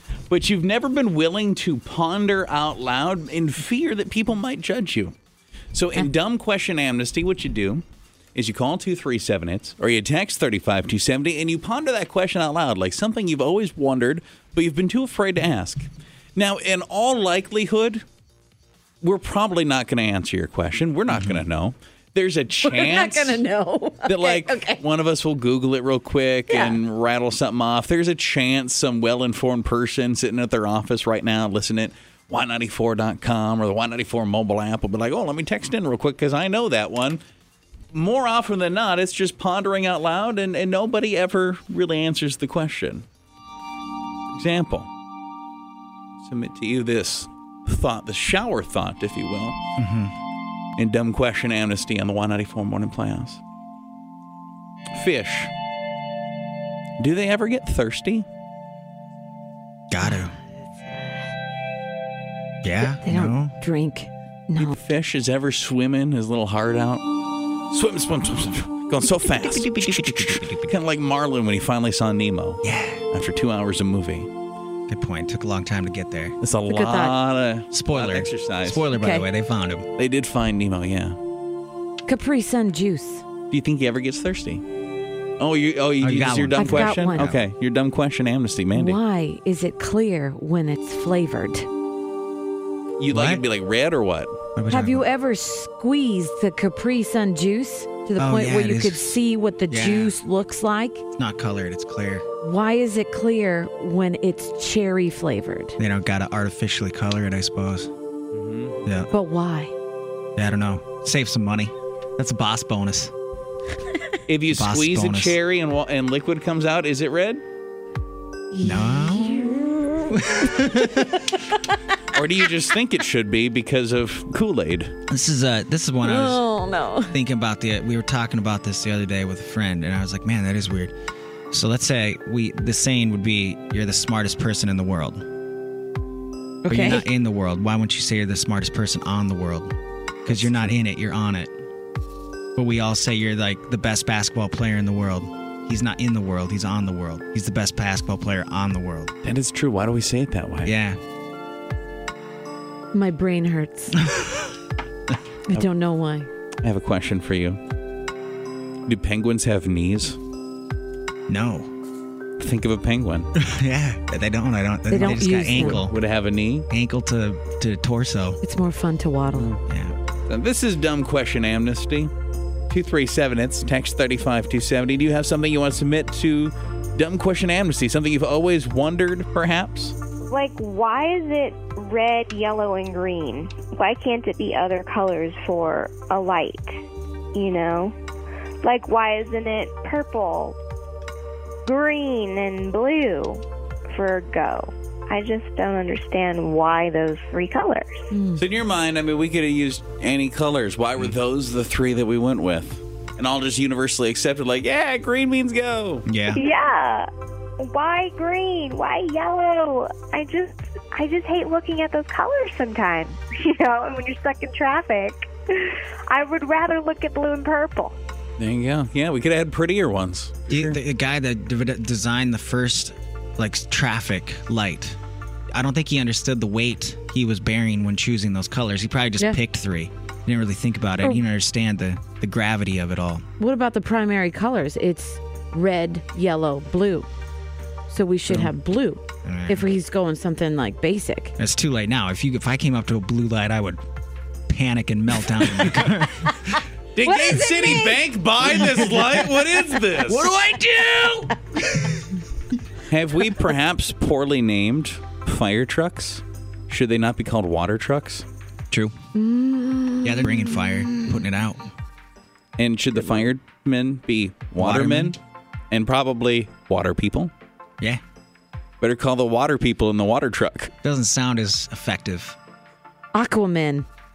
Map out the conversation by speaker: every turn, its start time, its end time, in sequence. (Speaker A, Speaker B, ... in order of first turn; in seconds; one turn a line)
Speaker A: 0.3-5.1
Speaker A: 5.7-7.8
Speaker A: 8.3-18.0
Speaker A: 19.0-23.4
Speaker B: 21.1-21.4
Speaker C: 22.6-24.8
Speaker A: 24.0-37.2
Speaker C: 26.5-26.8
Speaker A: 37.9-43.0
Speaker A: 44.3-44.9
Speaker A: 46.2-49.6
Speaker B: 49.8-50.1
Speaker A: 50.8-53.4
Speaker A: 54.9-55.5
Speaker A: 57.0-58.2
Speaker B: 59.9-60.3
Speaker C: 60.0-61.3
Speaker B: 62.6-63.5
Speaker C: 62.8-64.8
Speaker A: 64.6-67.1
Speaker A: 67.7-74.3
Speaker B: 69.2-70.7
Speaker B: 72.6-73.0
Speaker B: 74.9-76.4
Speaker A: 76.4-78.9
Speaker C: 76.7-77.2
Speaker B: 77.7-79.9
Speaker C: 78.9-79.2
Speaker A: 80.0-81.2
Speaker C: 82.1-83.2
Speaker A: 83.5-84.6
Speaker A: 85.4-89.0
Speaker B: 86.0-87.4
Speaker C: 86.5-87.3
Speaker C: 88.7-91.7
Speaker A: 93.0-94.4
Speaker B: 93.1-93.4
Speaker B: 94.5-95.0
Speaker C: 94.7-101.0
Speaker B: 98.2-100.2
Speaker B: 101.2-102.2
Speaker C: 102.4-105.8
Speaker B: 105.8-107.9
Speaker A: 108.3-108.8
Speaker B: 108.8-109.1
Speaker C: 109.1-109.7
Speaker B: 110.3-113.1
Speaker A: 114.3-117.4
Speaker B: 114.5-115.4
Speaker C: 118.5-120.8
Speaker B: 118.6-121.3
Speaker A: 122.1-124.9
Speaker B: 125.1-126.5
Speaker C: 126.0-127.1
Speaker B: 127.1-130.9
Speaker B: 131.5-135.2
Speaker C: 136.6-137.1
Speaker B: 136.7-139.7
Speaker A: 140.2-140.8
Speaker B: 140.2-141.5
Speaker B: 142.6-149.1
Speaker A: 149.2-150.7
Speaker B: 150.6-151.0
Speaker C: 152.9-154.0
Speaker B: 153.9-154.5
Speaker C: 155.5-156.3
Speaker A: 156.6-157.6
Speaker A: 158.9-160.2
Speaker B: 161.3-161.7
Speaker A: 162.4-163.3
Speaker B: 163.4-165.9
Speaker C: 164.9-165.8
Speaker A: 165.5-166.7
Speaker B: 166.7-168.4
Speaker C: 168.4-169.5
Speaker A: 169.3-169.6
Speaker B: 169.6-169.9
Speaker A: 170.3-172.1
Speaker A: 172.7-179.9
Speaker D: 180.3-186.7
Speaker D: 187.3-187.9
Speaker D: 188.6-190.6
Speaker D: 191.6-198.0
Speaker C: 198.1-198.4
Speaker A: 198.3-206.1
Speaker B: 206.1-206.4
Speaker D: 206.3-207.1
Speaker D: 207.6-217.9
Speaker A: 218.4-220.8
Speaker B: 220.5-225.0
Speaker B: 225.5-233.2
Speaker C: 233.4-237.1
Speaker C: 237.9-241.3
Speaker B: 239.2-239.7
Speaker B: 241.4-243.8
Speaker B: 244.5-246.6
Speaker A: 246.9-251.3
Speaker C: 247.1-247.8
Speaker B: 250.1-251.1
Speaker B: 251.7-252.0
Speaker A: 252.9-258.2
Speaker C: 259.1-261.2
Speaker B: 260.0-261.6
Speaker A: 262.6-265.2
Speaker B: 264.6-265.2
Speaker A: 265.7-267.3
Speaker A: 268.8-270.7
Speaker B: 270.8-272.4
Speaker C: 273.1-273.9